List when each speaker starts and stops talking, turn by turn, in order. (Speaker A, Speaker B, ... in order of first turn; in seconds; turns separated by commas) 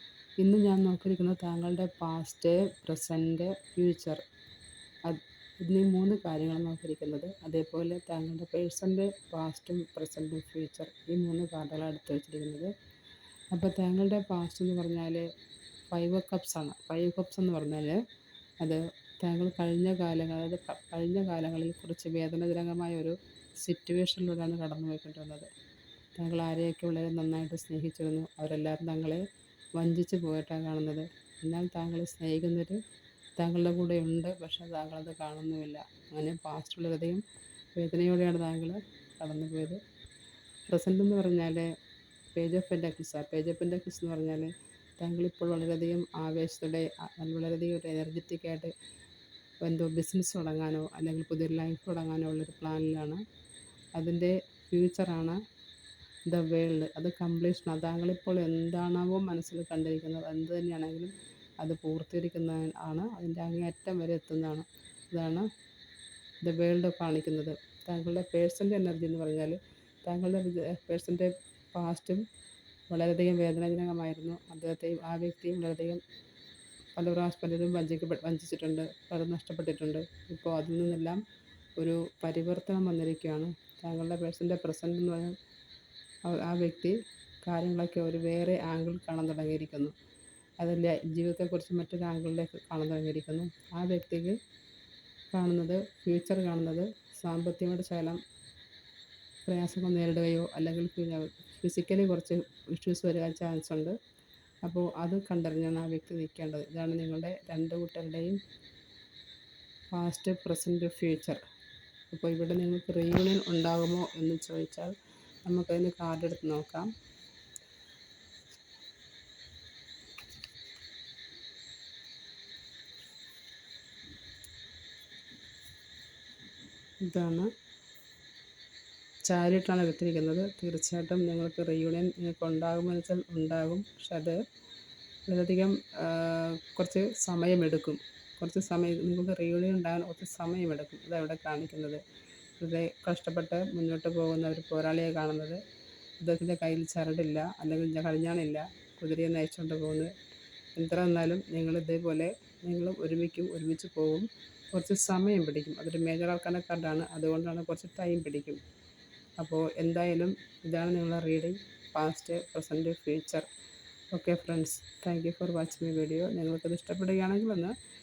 Speaker A: 0.4-4.2, Speaker A: 5.0-12.7, Speaker A: 13.5-15.3, Speaker A: 15.9-18.0, Speaker A: 18.6-25.5, Speaker A: 26.2-29.2, Speaker A: 29.8-32.8, Speaker A: 33.4-37.2, Speaker A: 37.7-39.8, Speaker A: 40.7-41.7, Speaker A: 42.3-48.7, Speaker A: 49.6-53.2, Speaker A: 54.0-55.4, Speaker A: 56.3-65.5, Speaker A: 66.4-72.2, Speaker A: 72.9-76.0, Speaker A: 76.9-81.2, Speaker A: 81.8-85.3, Speaker A: 86.2-89.9, Speaker A: 90.6-94.4, Speaker A: 95.3-98.2, Speaker A: 99.5-103.9, Speaker A: 104.6-108.4, Speaker A: 109.9-111.4, Speaker A: 112.1-116.9, Speaker A: 127.0-127.5, Speaker A: 129.2-134.4, Speaker A: 135.3-142.0, Speaker A: 142.6-145.6, Speaker A: 146.2-150.1, Speaker A: 150.8-158.6, Speaker A: 159.4-163.5, Speaker A: 164.1-167.7